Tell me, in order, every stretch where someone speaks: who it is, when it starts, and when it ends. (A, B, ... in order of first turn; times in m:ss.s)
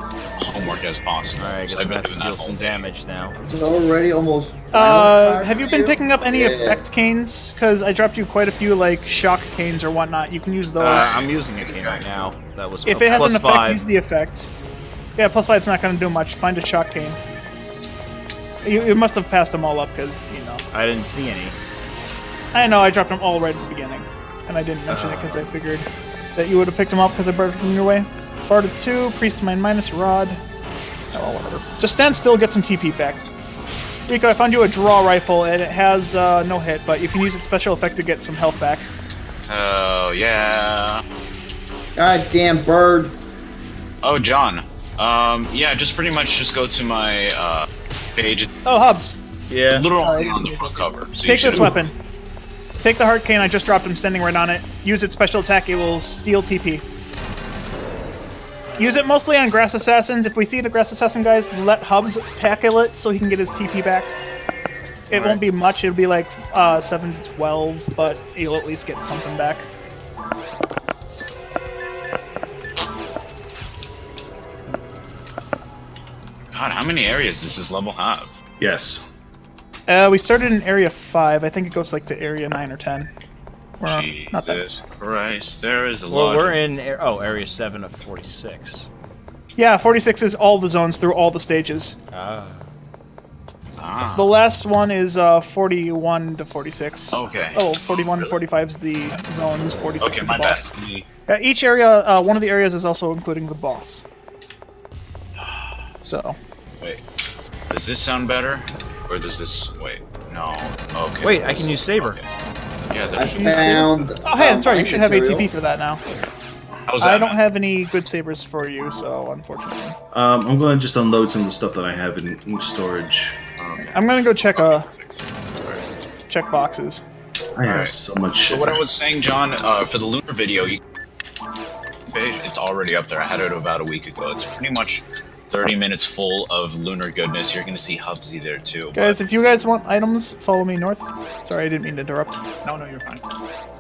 0:00.4-0:02.8 A
0:01.4-0:03.4 B
0:03.4-0:06.8 C
0:04.7-0:11.2 D
0:10.8-0:13.8 B
0:10.9-0:12.0 A
0:12.8-0:14.5 D
0:15.2-0:17.2 D
0:18.6-0:20.6 D
0:20.7-0:21.6 B
0:22.5-0:30.4 D
0:24.9-0:25.4 B
0:31.1-0:33.2 D
0:34.1-0:38.8 D
0:39.5-0:41.0 A
0:42.0-0:43.2 C
0:44.0-0:48.5 A
0:48.7-0:49.2 D
0:49.5-0:49.9 B
0:49.7-0:51.8 A
0:49.9-0:50.7 D
0:51.3-0:51.9 D
0:51.4-0:51.7 E
0:52.8-0:56.8 D
0:58.7-0:59.0 B
0:58.8-1:04.1 D
1:05.1-1:09.7 D
1:05.1-1:05.4 B
1:16.5-1:18.3 A
1:18.6-1:19.0 E
1:19.9-1:23.1 D
1:23.8-1:24.8 D
1:23.8-1:26.6 A
1:26.1-1:28.9 B
1:29.6-1:32.0 D
1:32.1-1:32.6 B
1:33.8-1:34.3 A
1:34.2-1:40.7 D
1:37.1-1:38.4 A
1:40.0-1:41.1 A
1:41.3-1:44.1 D
1:46.0-1:46.4 D
1:47.7-1:52.3 A
1:51.2-1:52.2 B
1:52.9-1:54.1 A
1:53.2-1:55.5 C
1:53.4-1:56.0 D
1:56.9-1:57.4 A
1:57.0-2:00.0 D
2:00.1-2:03.4 E
2:03.6-2:05.8 A
2:03.9-2:04.9 D
2:06.3-2:07.0 D
2:07.6-2:08.8 E
2:07.6-2:07.9 A
2:08.5-2:10.8 A
2:12.1-2:19.2 A
2:18.9-2:23.2 D